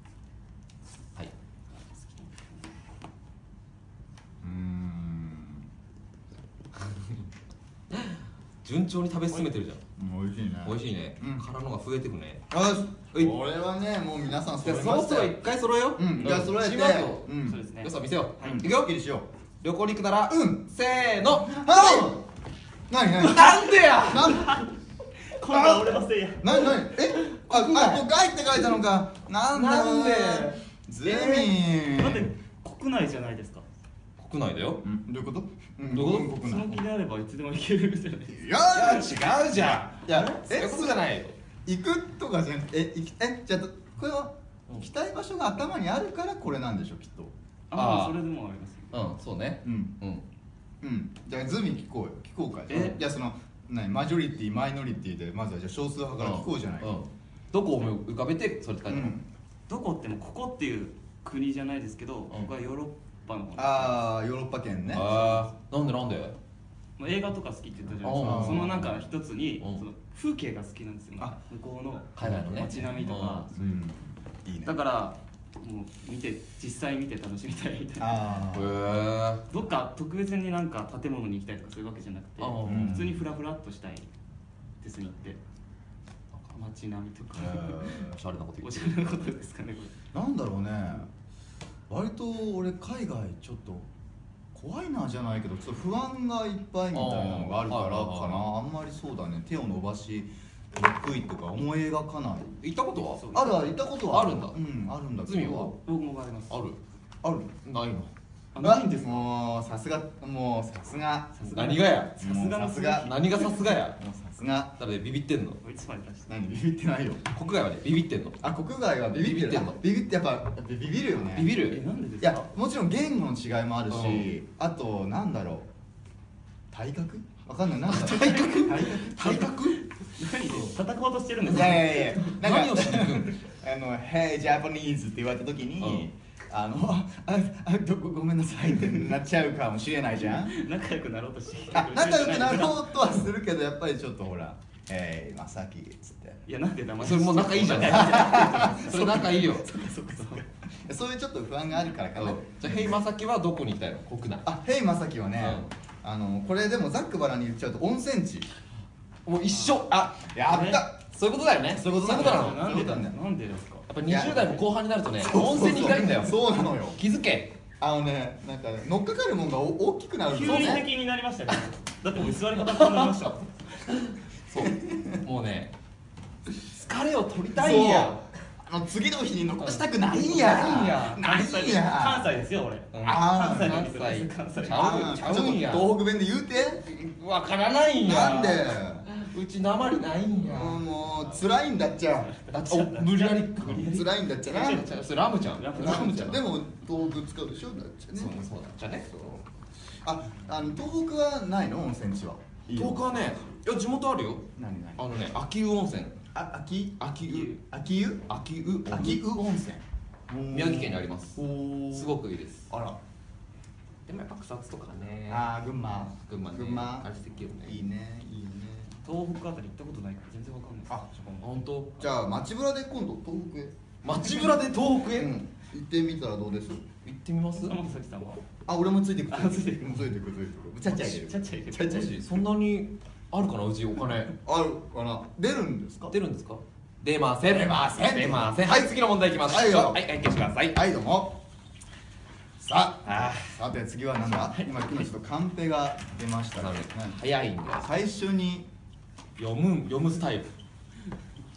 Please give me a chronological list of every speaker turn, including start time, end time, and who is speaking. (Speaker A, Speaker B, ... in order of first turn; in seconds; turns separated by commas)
Speaker A: 1.7-2.6, Speaker B: 4.4-5.7, Speaker C: 6.8-7.2, Speaker C: 7.9-9.8, Speaker B: 10.0-11.4, Speaker C: 10.6-12.4, Speaker B: 12.5-15.4, Speaker C: 14.6-18.9, Speaker B: 15.9-17.6, Speaker A: 17.4-18.6, Speaker B: 18.4-19.3, Speaker C: 19.6-22.2, Speaker B: 20.3-20.6, Speaker B: 21.4-22.2, Speaker B: 22.9-24.6, Speaker C: 23.2-24.6, Speaker A: 24.2-24.7, Speaker A: 25.3-26.9, Speaker B: 25.5-32.3, Speaker C: 27.5-28.0, Speaker C: 29.5-31.3, Speaker A: 31.1-33.6, Speaker C: 34.2-34.8, Speaker B: 34.8-36.8, Speaker C: 35.9-36.4, Speaker A: 36.1-38.5, Speaker B: 38.3-41.0, Speaker C: 38.7-41.3, Speaker A: 40.1-40.4, Speaker B: 41.6-47.3, Speaker A: 47.7-49.0, Speaker C: 47.7-48.2, Speaker C: 48.9-50.2, Speaker B: 49.6-49.9, Speaker B: 50.8-56.9, Speaker A: 52.7-53.0, Speaker C: 56.2-59.2, Speaker B: 58.9-59.2, Speaker A: 59.7-64.1, Speaker B: 63.6-65.1, Speaker C: 64.9-66.4, Speaker A: 65.0-65.4, Speaker A: 67.0-73.8, Speaker C: 68.0-69.1, Speaker B: 68.1-68.8, Speaker C: 72.2-73.5, Speaker B: 73.5-74.8, Speaker A: 74.6-78.2, Speaker B: 78.0-78.8, Speaker C: 78.5-79.5, Speaker A: 79.5-84.1, Speaker C: 82.4-83.1, Speaker B: 82.6-83.2, Speaker A: 84.8-85.4, Speaker A: 86.5-88.0, Speaker B: 87.3-88.1, Speaker C: 88.0-89.0, Speaker A: 88.6-89.9, Speaker B: 90.1-91.1, Speaker B: 91.9-93.9, Speaker B: 94.5-102.6, Speaker C: 96.9-98.4, Speaker C: 102.6-103.2, Speaker A: 103.0-103.8, Speaker B: 103.3-105.7, Speaker C: 104.1-104.6, Speaker C: 105.2-105.7, Speaker A: 105.8-106.6, Speaker C: 106.5-106.8, Speaker B: 107.2-107.5, Speaker C: 107.6-108.1, Speaker A: 108.5-109.3, Speaker B: 108.6-111.4, Speaker A: 111.4-113.5, Speaker C: 111.5-112.3, Speaker B: 112.2-113.1, Speaker C: 113.0-114.0, Speaker B: 114.0-114.8, Speaker C: 114.8-115.6, Speaker A: 115.6-116.4, Speaker B: 116.3-117.2, Speaker C: 117.3-118.4, Speaker B: 118.4-121.6, Speaker C: 119.1-119.8, Speaker C: 121.3-121.8, Speaker A: 121.7-122.5, Speaker B: 122.2-125.7, Speaker C: 123.9-124.3, Speaker B: 126.7-129.7, Speaker C: 127.9-129.8, Speaker A: 130.0-132.3, Speaker C: 130.5-130.7, Speaker B: 131.5-140.5, Speaker C: 132.2-133.4, Speaker C: 135.8-136.1, Speaker A: 140.3-143.1, Speaker B: 141.7-146.4, Speaker A: 146.4-150.4, Speaker C: 147.0-149.7, Speaker B: 147.8-153.0, Speaker C: 152.2-154.5, Speaker B: 154.4-158.5, Speaker C: 155.4-155.7, Speaker C: 159.2-160.3, Speaker A: 159.5-159.8, Speaker B: 160.1-161.0, Speaker A: 160.5-160.8, Speaker C: 161.0-162.7, Speaker B: 161.7-163.2, Speaker A: 162.0-163.9, Speaker C: 163.9-166.4, Speaker B: 164.1-164.5, Speaker B: 165.2-167.0, Speaker C: 166.9-167.6, Speaker B: 167.8-170.9, Speaker A: 170.3-173.5, Speaker C: 170.4-170.8, Speaker C: 172.7-173.1, Speaker C: 173.9-175.7, Speaker B: 174.6-175.2, Speaker C: 176.7-178.2, Speaker B: 177.5-182.4, Speaker C: 179.6-180.7, Speaker A: 180.1-185.1, Speaker C: 182.9-185.9, Speaker B: 183.0-183.8, Speaker B: 184.7-186.8, Speaker C: 186.8-190.8, Speaker B: 188.0-189.1, Speaker B: 190.4-192.3, Speaker A: 192.3-194.9, Speaker C: 192.5-196.4, Speaker B: 193.7-194.8, Speaker A: 195.5-196.4, Speaker B: 195.8-198.3, Speaker C: 198.1-199.4, Speaker B: 200.0-203.1, Speaker C: 202.7-206.2, Speaker B: 204.6-205.0, Speaker B: 206.3-208.2, Speaker C: 207.0-207.6, Speaker C: 208.3-209.2, Speaker B: 208.8-212.2, Speaker C: 210.5-212.7, Speaker B: 212.7-213.0, Speaker C: 214.1-215.4, Speaker B: 215.3-219.0, Speaker C: 216.1-217.8, Speaker A: 219.0-221.5, Speaker C: 221.4-222.0, Speaker B: 222.0-224.4, Speaker C: 224.0-225.3, Speaker B: 225.1-226.8, Speaker C: 227.0-227.8, Speaker A: 227.6-228.4, Speaker B: 228.7-232.1, Speaker A: 229.3-230.0, Speaker A: 230.8-232.1, Speaker C: 231.8-234.3, Speaker B: 234.4-236.1, Speaker C: 236.1-240.8, Speaker B: 237.5-240.0, Speaker B: 240.7-241.4, Speaker B: 242.6-247.2, Speaker C: 243.0-243.6, Speaker C: 246.6-247.8, Speaker B: 247.8-248.7, Speaker C: 249.4-250.5